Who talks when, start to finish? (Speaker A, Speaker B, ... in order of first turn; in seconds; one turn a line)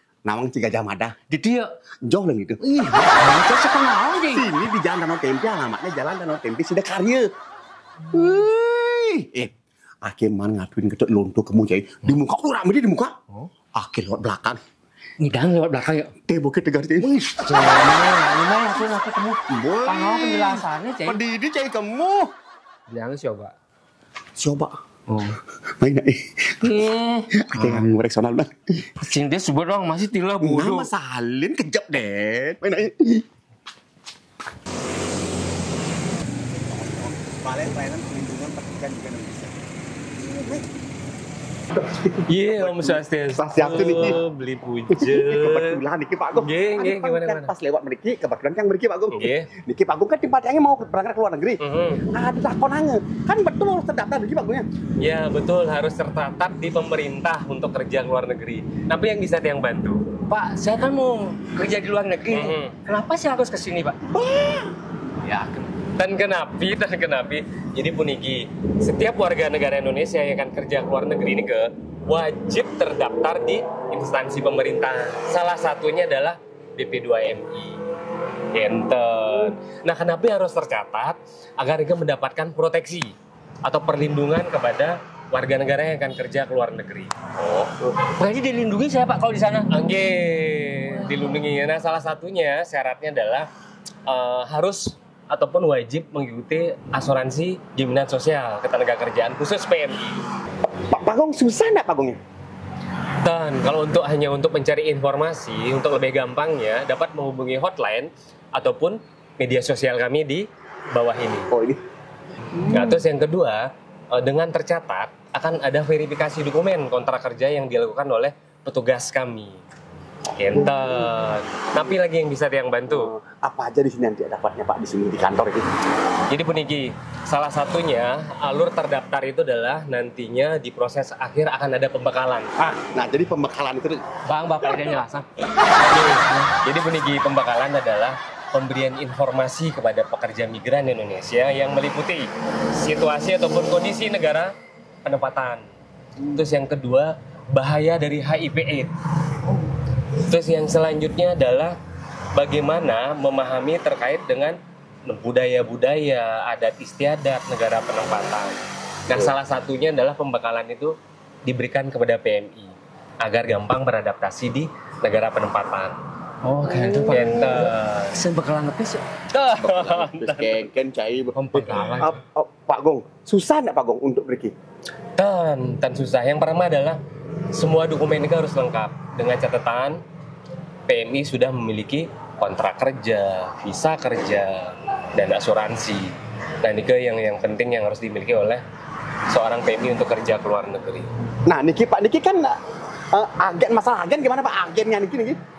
Speaker A: 0.2-1.1
Speaker B: 1.3-1.7
Speaker A: 2.1-2.6
Speaker B: 2.6-4.5
Speaker A: 4.3-7.3
Speaker A: 8.1-13.1
Speaker A: 13.7-14.6
Speaker B: 15.2-16.1
Speaker A: 16.2-17.1
Speaker B: 17.0-21.2
Speaker A: 19.5-22.3
Speaker B: 22.9-23.5
Speaker A: 24.4-24.7
Speaker B: 25.1-25.4
Speaker A: 25.8-26.2
Speaker B: 26.6-27.9
Speaker A: 27.4-28.5
Speaker B: 29.0-30.9
Speaker A: 30.4-33.2
Speaker A: 36.5-39.6
Speaker A: 40.2-40.6
Speaker A: 42.0-44.2
Speaker C: 42.3-45.8
Speaker A: 44.9-54.6
Speaker C: 46.4-47.5
Speaker C: 49.1-49.5
Speaker C: 51.6-52.0
Speaker C: 55.0-60.0
Speaker B: 60.3-64.0
Speaker C: 62.3-62.7
Speaker A: 64.1-64.7
Speaker B: 65.2-65.7
Speaker C: 66.0-77.8
Speaker C: 78.5-83.1
Speaker C: 83.6-87.8
Speaker B: 88.2-89.7
Speaker C: 89.7-93.5
Speaker C: 94.1-100.2
Speaker A: 100.7-102.2
Speaker C: 103.2-111.5
Speaker A: 111.5-111.8
Speaker A: 112.5-113.0
Speaker C: 112.7-119.6
Speaker C: 120.4-123.1
Speaker A: 120.5-121.1
Speaker A: 122.9-125.7
Speaker C: 126.3-132.5
Speaker A: 132.6-134.0
Speaker B: 134.3-135.3
Speaker C: 135.9-144.5
Speaker B: 135.9-136.5
Speaker C: 145.0-145.6
Speaker C: 146.2-148.9
Speaker C: 150.2-151.8
Speaker C: 152.3-158.6
Speaker C: 159.1-160.9
Speaker C: 161.4-165.9
Speaker B: 166.4-169.1
Speaker A: 166.7-167.2
Speaker C: 167.1-168.1
Speaker C: 169.3-170.7
Speaker A: 169.5-174.5
Speaker C: 171.3-172.1
Speaker B: 171.6-172.1
Speaker C: 175.2-177.0
Speaker C: 177.5-180.0
Speaker C: 180.9-188.6
Speaker C: 189.3-191.1
Speaker A: 191.5-192.5
Speaker A: 193.1-195.4